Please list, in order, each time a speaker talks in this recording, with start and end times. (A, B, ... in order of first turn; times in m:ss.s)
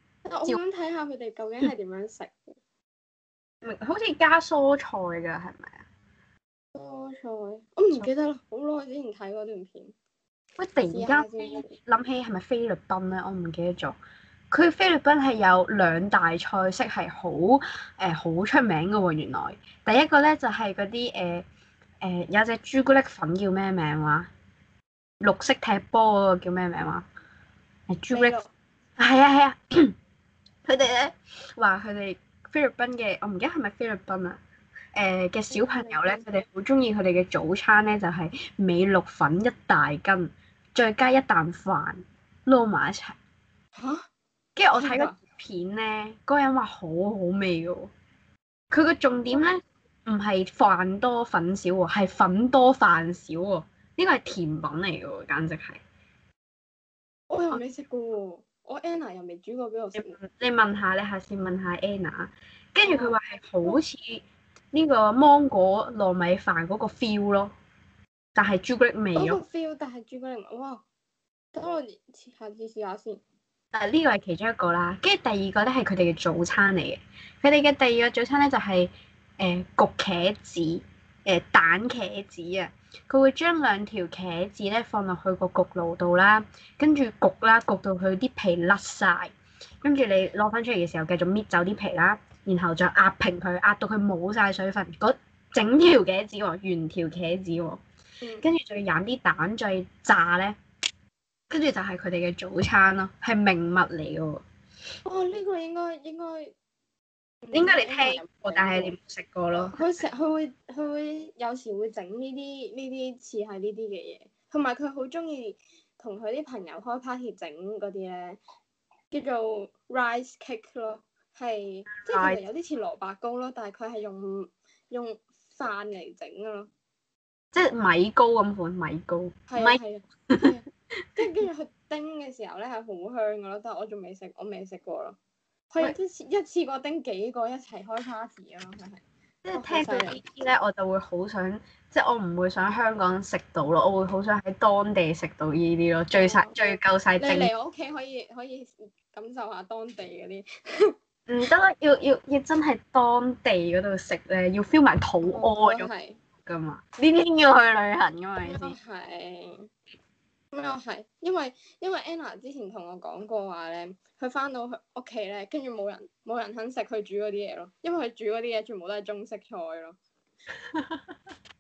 0:00.2-0:02.6 A
0:03.6-0:05.8 B
0:06.7-0:10.0 A
0:10.6-0:14.0 B
0:10.9-0:11.8 A
0:14.5-0:21.4 B
0:22.0-0:24.3 B
0:25.2-0:27.1 B
0:27.9-0:28.4 B
0:28.1-0:28.5 A
0:29.0-0:29.9 B
0:30.6-0:34.4 B
0:35.0-0:43.2 B
0:35.5-0:36.3 A
0:43.8-0:44.0 A
0:44.6-0:47.9 B
0:44.7-0:45.2 A
0:48.7-0:55.8 B
0:57.3-1:00.2 A
1:00.0-1:07.5 B
1:02.8-1:03.8 A
1:08.4-1:09.4 B
1:09.2-1:10.8 A
1:11.5-1:13.2 A
1:13.7-1:29.3 B
1:29.8-1:37.8 B
1:38.4-1:40.6 B
1:41.5-1:44.4 B
1:45.0-1:46.5 A
1:47.4-1:48.9 A
1:47.5-1:49.8 B
1:49.7-1:58.4 A
1:59.1-2:06.7 A
2:02.1-2:02.4 B
2:07.5-2:10.5 B
2:09.5-2:15.2 A
2:15.7-2:20.2 A
2:19.4-2:27.5 B
2:26.1-2:31.0 A
2:31.3-2:35.9 B
2:35.2-2:36.2 A
2:36.5-2:38.8 B
2:38.4-2:39.7 A
2:40.5-2:50.0 A
2:50.7-2:51.2 B